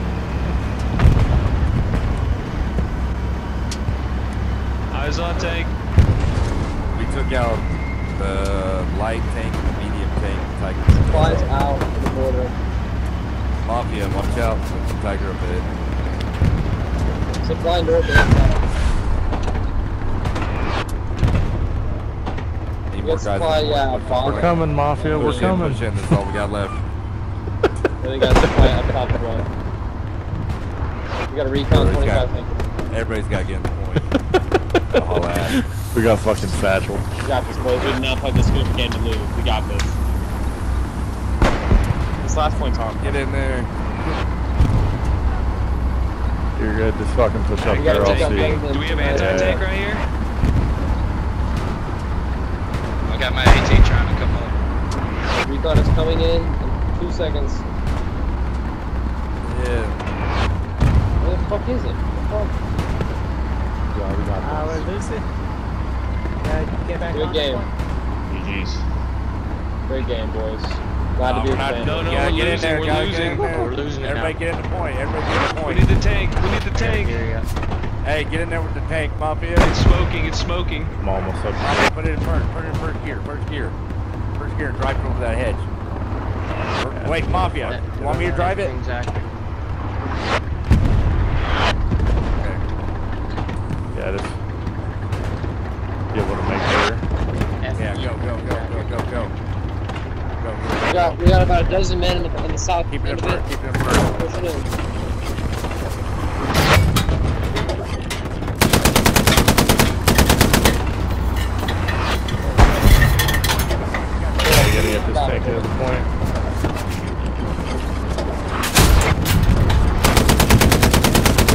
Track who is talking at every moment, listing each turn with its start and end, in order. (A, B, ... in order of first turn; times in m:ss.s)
0:04.9-0:05.7 A
0:06.9-0:11.5 B
0:11.1-0:11.4 C
0:11.1-0:12.5 D
0:13.6-0:15.6 B
0:17.4-0:18.6 D
0:22.9-0:26.8 B
0:23.0-0:25.6 D
0:24.2-0:25.8 E
0:28.0-0:29.4 D
0:28.3-0:28.9 E
0:31.3-0:32.6 D
0:31.7-0:32.2 B
0:32.9-0:34.1 B
0:34.0-0:37.0 E
0:34.9-0:35.6 B
0:37.2-0:40.0 D
0:42.2-0:43.2 D
0:43.0-0:43.7 B
0:46.6-0:49.6 E
0:47.6-0:49.6 D
0:47.7-0:48.6 F
0:47.8-0:48.3 B
0:48.6-0:50.0 A
0:53.1-0:54.5 F
0:55.4-0:57.6 D
0:59.4-1:00.0 B
1:01.2-1:02.5 D
1:03.9-1:04.9 E
1:04.4-1:05.2 C
1:06.4-1:07.7 C
1:07.1-1:07.6 D
1:08.3-1:08.8 E
1:09.9-1:12.4 D
1:11.2-1:15.8 B
1:11.8-1:13.4 A
1:12.9-1:14.4 G
1:15.6-1:17.2 A
1:16.7-1:17.5 G
1:18.0-1:19.7 B
1:19.6-1:20.9 A
1:20.9-1:21.9 E
1:21.6-1:23.8 B
1:24.4-1:25.7 B
1:26.8-1:28.7 B
1:26.9-1:27.4 E
1:27.3-1:29.3 G
1:32.3-1:32.6 B
1:33.9-1:34.4 E
1:36.1-1:37.0 E
1:37.6-1:39.0 G
1:37.8-1:39.3 B
1:40.4-1:41.2 B
1:40.8-1:44.7 D
1:42.9-1:44.0 B
1:54.0-1:54.7 B
1:54.4-1:56.1 E
1:54.4-1:55.7 D